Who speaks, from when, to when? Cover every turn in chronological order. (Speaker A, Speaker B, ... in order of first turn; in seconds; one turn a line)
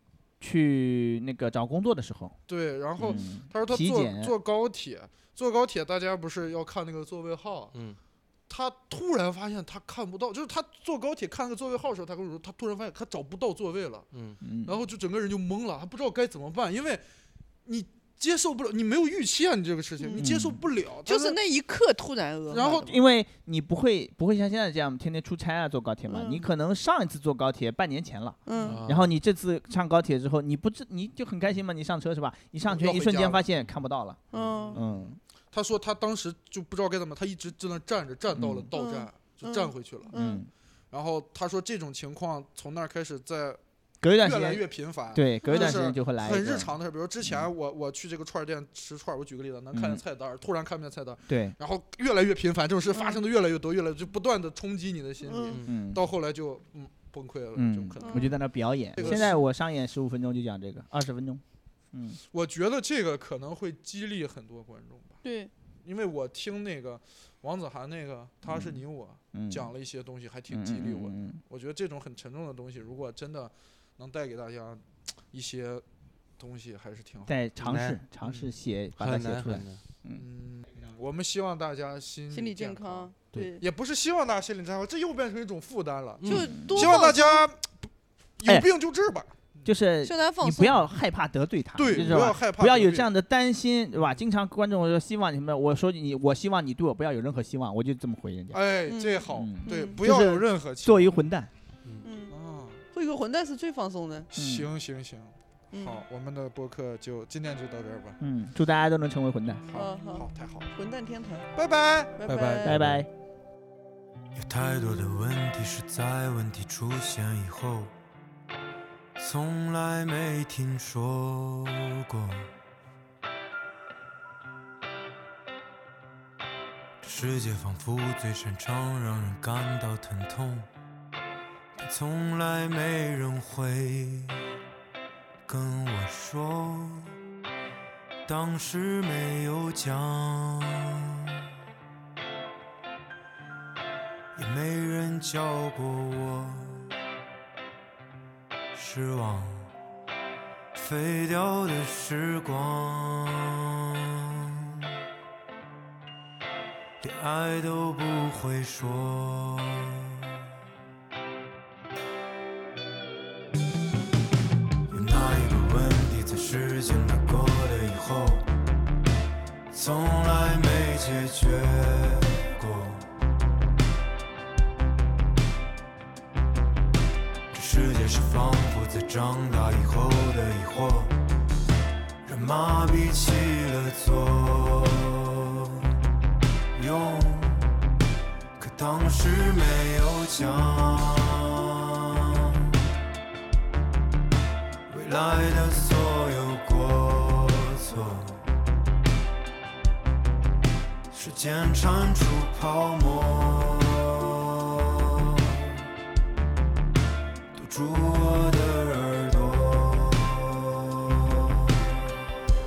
Speaker A: 0.4-2.4
Speaker B: 2.5-7.7
Speaker A: 3.0-4.3
Speaker C: 7.7-8.0
Speaker B: 8.5-14.1
Speaker C: 14.1-14.4
Speaker A: 14.4-14.8
Speaker B: 14.6-17.0
Speaker B: 17.6-21.4
Speaker D: 20.0-20.3
Speaker A: 20.2-20.6
Speaker D: 21.1-23.0
Speaker B: 22.5-22.9
Speaker A: 22.8-34.2
Speaker D: 26.1-26.5
Speaker D: 28.5-28.8
Speaker C: 28.6-29.1
Speaker B: 32.7-33.5
Speaker D: 34.3-34.8
Speaker B: 34.3-40.1
Speaker A: 34.8-35.2
Speaker A: 38.4-38.7
Speaker D: 38.7-40.4
Speaker A: 40.1-40.5
Speaker B: 40.9-43.6
Speaker A: 44.0-47.5
Speaker B: 44.2-58.4
Speaker D: 45.4-45.8
Speaker A: 49.7-50.0
Speaker A: 51.3-51.6
Speaker D: 52.9-53.2
Speaker D: 55.2-55.6
Speaker A: 55.6-56.0
Speaker A: 57.5-61.4
Speaker D: 58.0-58.4
Speaker B: 59.0-59.4
Speaker A: 61.9-62.2
Speaker B: 62.3-65.2
Speaker D: 65.2-65.5
Speaker B: 65.8-75.8
Speaker A: 68.5-68.8
Speaker A: 69.3-69.7
Speaker A: 70.5-71.4
Speaker B: 76.4-77.3
Speaker A: 77.3-80.2
Speaker C: 77.6-78.0
Speaker B: 78.2-78.5
Speaker C: 79.0-79.8
Speaker B: 80.2-89.7
Speaker D: 82.3-83.6
Speaker C: 86.2-86.7
Speaker D: 86.3-87.4
Speaker A: 86.5-86.9
Speaker A: 89.7-98.6
Speaker D: 90.0-90.8
Speaker B: 91.8-93.1
Speaker B: 98.5-101.2
Speaker D: 98.9-100.0
Speaker A: 99.3-101.5
Speaker D: 102.0-102.3
Speaker B: 102.3-102.8
Speaker D: 102.9-104.3
Speaker B: 104.3-108.2
Speaker A: 104.3-104.7
Speaker D: 105.7-106.0
Speaker A: 108.2-109.6
Speaker B: 109.7-110.7
Speaker D: 109.7-111.5
Speaker B: 111.5-112.2
Speaker D: 112.2-112.8
Speaker C: 112.3-113.1
Speaker A: 112.7-113.1
Speaker E: 114.3-117.9
Speaker E: 119.2-122.5
Speaker E: 127.0-130.7
Speaker E: 131.8-134.4
Speaker E: 135.5-137.1
Speaker E: 138.3-141.3
Speaker E: 144.3-146.9
Speaker E: 148.7-149.7
Speaker E: 150.7-154.8
Speaker E: 157.0-160.3
Speaker E: 164.9-168.5
Speaker E: 169.7-173.1
Speaker E: 177.5-181.1
Speaker E: 182.2-185.9
Speaker E: 186.7-187.7
Speaker E: 188.6-192.6
Speaker E: 194.9-198.4
Speaker E: 201.1-205.8
Speaker E: 207.5-212.1